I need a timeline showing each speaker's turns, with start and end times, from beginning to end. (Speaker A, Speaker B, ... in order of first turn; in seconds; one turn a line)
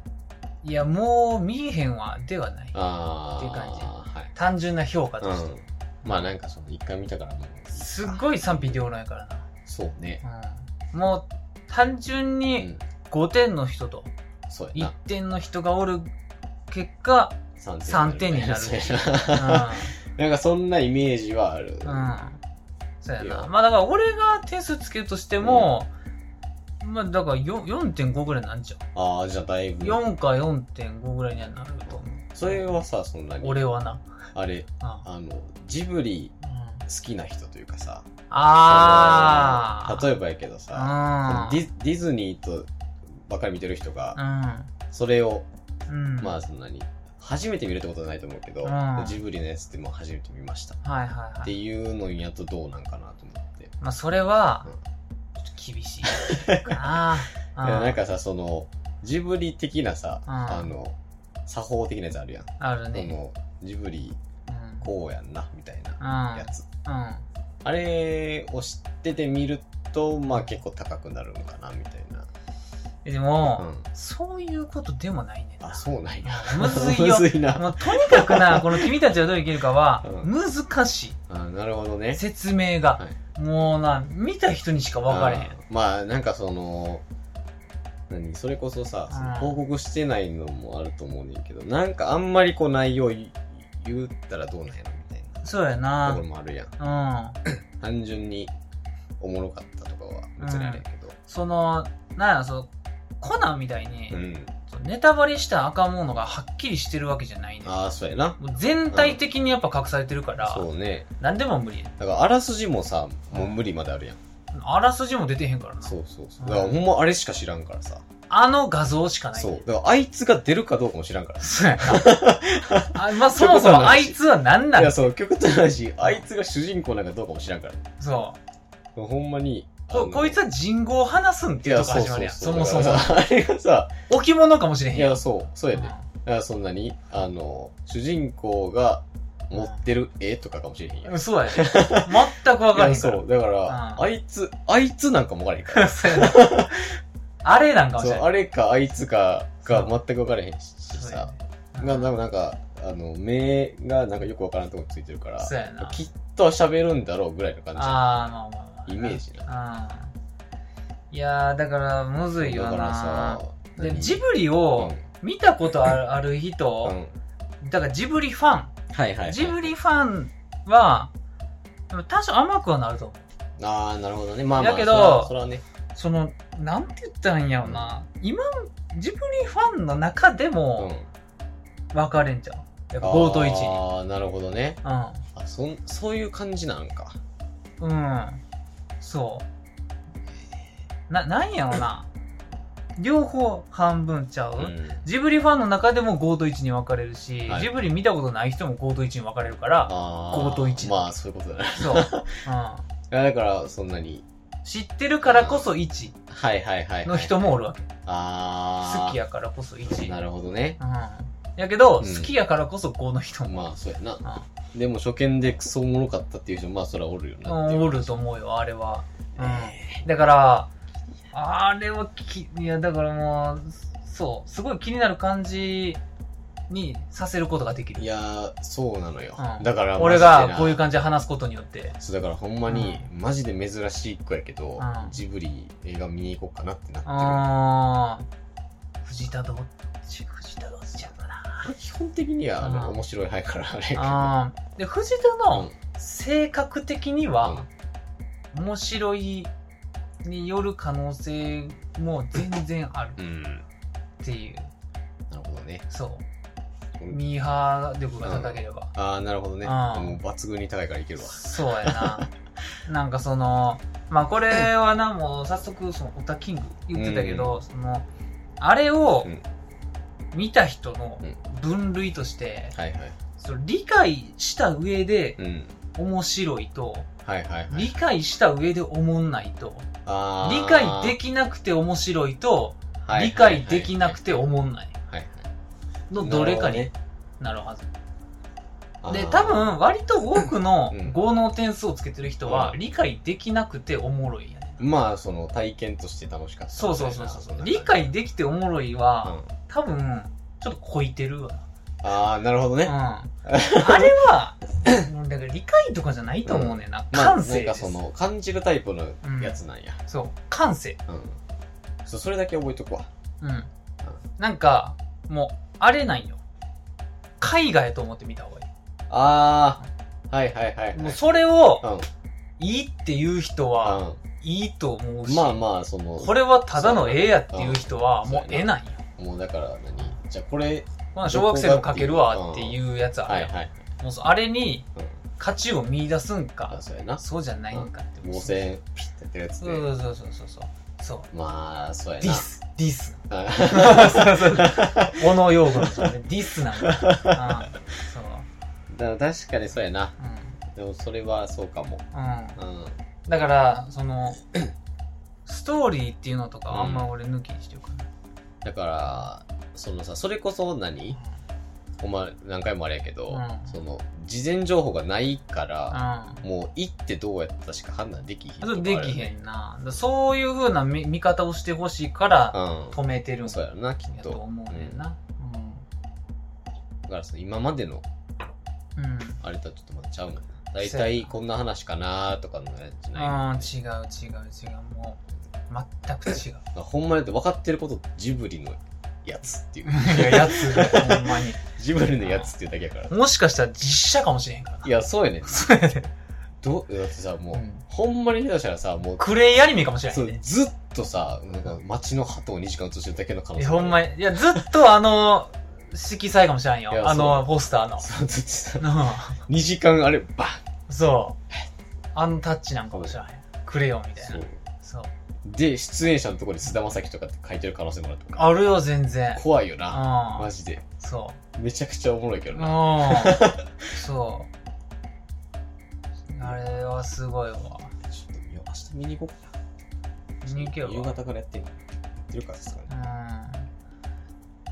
Speaker A: 0.6-2.8
Speaker B: 2.7-4.3
Speaker A: 3.4-6.3
Speaker B: 5.2-8.8
Speaker A: 7.7-9.5
Speaker B: 9.7-10.2
Speaker A: 10.2-14.1
Speaker B: 14.5-14.9
Speaker A: 14.7-16.1
Speaker A: 16.7-19.9
Speaker B: 17.6-22.2
Speaker A: 21.8-22.4
Speaker A: 23.0-25.9
Speaker B: 23.2-23.5
Speaker B: 25.4-25.7
Speaker A: 26.8-28.8
Speaker B: 28.9-30.0
Speaker A: 29.8-32.8
Speaker B: 31.9-33.7
Speaker A: 33.4-34.1
Speaker B: 34.3-36.3
Speaker A: 36.4-36.8
Speaker B: 36.9-38.0
Speaker A: 38.3-40.1
Speaker B: 38.6-44.2
Speaker A: 40.7-41.7
Speaker A: 44.1-44.7
Speaker B: 44.9-45.5
Speaker A: 45.9-46.4
Speaker B: 46.2-50.8
Speaker A: 48.6-49.2
Speaker A: 50.8-51.5
Speaker B: 51.4-53.7
Speaker A: 53.8-54.7
Speaker A: 55.4-58.0
Speaker B: 56.0-57.1
Speaker B: 57.6-61.0
Speaker A: 60.3-60.7
Speaker B: 61.5-64.2
Speaker A: 62.6-63.2
Speaker A: 64.5-64.8
Speaker B: 64.8-66.7
Speaker A: 66.0-67.2
Speaker B: 67.6-72.3
Speaker A: 73.0-81.2
Speaker B: 73.6-73.8
Speaker B: 75.6-79.0
Speaker B: 80.0-80.3
Speaker B: 81.3-82.2
Speaker A: 82.1-85.6
Speaker B: 85.1-87.0
Speaker B: 88.1-95.5
Speaker A: 89.1-89.6
Speaker A: 95.4-96.2
Speaker B: 96.0-96.7
Speaker A: 96.8-97.4
Speaker B: 97.4-98.5
Speaker B: 99.2-101.2
Speaker A: 100.4-107.8
Speaker B: 104.1-104.5
Speaker B: 107.6-109.2
Speaker A: 108.4-110.7
Speaker B: 110.4-111.1
Speaker A: 111.2-111.9
Speaker B: 112.0-114.2
Speaker A: 113.3-113.6
Speaker A: 114.5-116.8
Speaker B: 115.8-118.0
Speaker A: 118.3-119.6
Speaker B: 119.3-127.9
Speaker A: 121.4-122.3
Speaker A: 122.9-125.1
Speaker A: 128.0-128.4
Speaker B: 128.9-130.4
Speaker A: 129.9-133.2
Speaker B: 131.6-133.9
Speaker A: 134.1-136.1
Speaker B: 134.9-147.0
Speaker A: 139.5-139.8
Speaker A: 141.0-144.0
Speaker A: 145.7-146.7
Speaker A: 147.4-148.3
Speaker B: 148.0-158.2
Speaker A: 149.6-149.9
Speaker A: 150.9-152.1
Speaker A: 155.4-156.0
Speaker A: 157.8-160.1
Speaker B: 158.9-159.5
Speaker A: 161.1-167.0
Speaker B: 162.4-164.2
Speaker B: 164.8-165.0
Speaker B: 166.8-167.2
Speaker A: 167.6-168.7
Speaker B: 168.9-169.7
Speaker A: 169.3-171.1
Speaker A: 171.9-173.2
Speaker B: 173.6-175.6
Speaker A: 174.6-175.3
Speaker A: 175.9-180.9
Speaker B: 177.6-177.9
Speaker B: 180.8-181.1
Speaker A: 181.9-183.8
Speaker B: 183.0-184.8
Speaker A: 184.8-185.3
Speaker B: 185.3-187.2
Speaker A: 187.8-188.4
Speaker A: 189.0-189.4
Speaker A: 191.1-192.1
Speaker A: 193.0-201.1
Speaker B: 194.6-195.0
Speaker B: 199.9-202.4
Speaker A: 201.8-202.9
Speaker B: 203.1-204.2
Speaker A: 204.6-206.2
Speaker B: 205.2-205.7
Speaker B: 206.3-207.5
Speaker A: 207.0-207.9
Speaker B: 208.1-209.2
Speaker A: 208.8-210.2
Speaker B: 209.8-210.8
Speaker A: 210.8-213.7
Speaker B: 212.0-212.3
Speaker B: 213.4-218.2
Speaker A: 217.4-220.7
Speaker B: 219.3-220.0
Speaker A: 221.3-226.0
Speaker A: 226.7-228.1
Speaker B: 228.0-230.8
Speaker A: 229.4-232.0
Speaker B: 232.0-237.5
Speaker A: 232.7-233.1
Speaker A: 234.8-235.2
Speaker A: 237.0-238.3
Speaker A: 239.0-241.7
Speaker B: 241.6-244.3
Speaker A: 242.6-243.0
Speaker A: 243.9-247.7
Speaker A: 248.5-249.5
Speaker A: 250.2-253.2
Speaker B: 253.2-253.6
Speaker A: 254.2-254.7
Speaker B: 255.3-255.8
Speaker A: 255.9-256.2
Speaker A: 257.1-258.9
Speaker B: 258.2-262.3
Speaker A: 259.6-260.2
Speaker A: 261.2-262.3
Speaker A: 262.8-268.1
Speaker B: 266.9-267.6
Speaker A: 268.6-269.3
Speaker A: 270.3-272.8
Speaker B: 272.7-273.2
Speaker A: 273.4-275.4
Speaker B: 275.4-275.7
Speaker A: 275.9-277.1
Speaker B: 277.2-278.0
Speaker A: 277.7-279.9
Speaker B: 280.0-281.2
Speaker A: 280.4-284.9
Speaker B: 283.0-284.2
Speaker B: 285.1-285.5
Speaker A: 286.1-287.9
Speaker B: 286.1-286.9
Speaker B: 289.0-289.8
Speaker A: 289.1-294.8
Speaker B: 290.9-291.2
Speaker B: 292.4-292.8
Speaker B: 294.8-298.1
Speaker A: 296.7-301.6
Speaker B: 299.2-299.5
Speaker B: 302.0-304.2
Speaker A: 302.8-308.0
Speaker B: 306.4-310.0
Speaker A: 309.2-311.0
Speaker B: 311.1-311.4
Speaker B: 312.0-313.1
Speaker A: 313.4-313.7
Speaker A: 314.4-316.4
Speaker A: 317.4-318.7
Speaker B: 319.1-321.2
Speaker A: 320.9-321.9
Speaker B: 321.8-322.1
Speaker A: 322.6-325.6
Speaker B: 323.8-324.2
Speaker B: 325.2-333.7
Speaker A: 326.2-329.0
Speaker A: 331.1-334.9
Speaker A: 335.4-338.6
Speaker B: 336.7-339.9
Speaker A: 339.6-341.3
Speaker B: 341.3-342.5
Speaker A: 342.2-348.4
Speaker B: 343.3-346.1
Speaker B: 346.7-347.8
Speaker B: 348.9-350.1
Speaker A: 350.2-350.6
Speaker B: 350.7-352.0
Speaker A: 352.1-352.6
Speaker B: 352.6-353.0
Speaker A: 353.2-354.4
Speaker A: 355.4-358.1
Speaker B: 356.7-357.1
Speaker B: 358.6-361.2
Speaker B: 362.0-369.4
Speaker A: 363.3-363.7
Speaker A: 365.9-366.4
Speaker A: 368.6-375.8
Speaker B: 372.5-375.0
Speaker B: 377.1-378.0
Speaker A: 378.9-379.4
Speaker B: 379.4-383.7
Speaker A: 380.8-381.3
Speaker A: 383.1-386.6
Speaker B: 386.7-393.1
Speaker A: 389.8-391.6
Speaker A: 392.2-392.5
Speaker A: 393.1-396.1
Speaker B: 394.8-395.8
Speaker B: 396.6-404.6
Speaker A: 397.5-397.8
Speaker A: 399.2-400.4
Speaker A: 403.6-408.1
Speaker B: 406.9-410.6
Speaker A: 408.8-409.4
Speaker A: 410.9-411.4
Speaker A: 412.1-415.1
Speaker B: 414.2-414.6
Speaker B: 415.4-418.5
Speaker A: 418.3-421.4
Speaker B: 419.3-420.9
Speaker B: 421.5-423.9
Speaker A: 422.5-424.5
Speaker A: 426.3-427.9
Speaker B: 426.4-426.8
Speaker B: 428.0-429.5
Speaker A: 430.4-431.1
Speaker B: 430.4-432.9
Speaker A: 432.9-433.7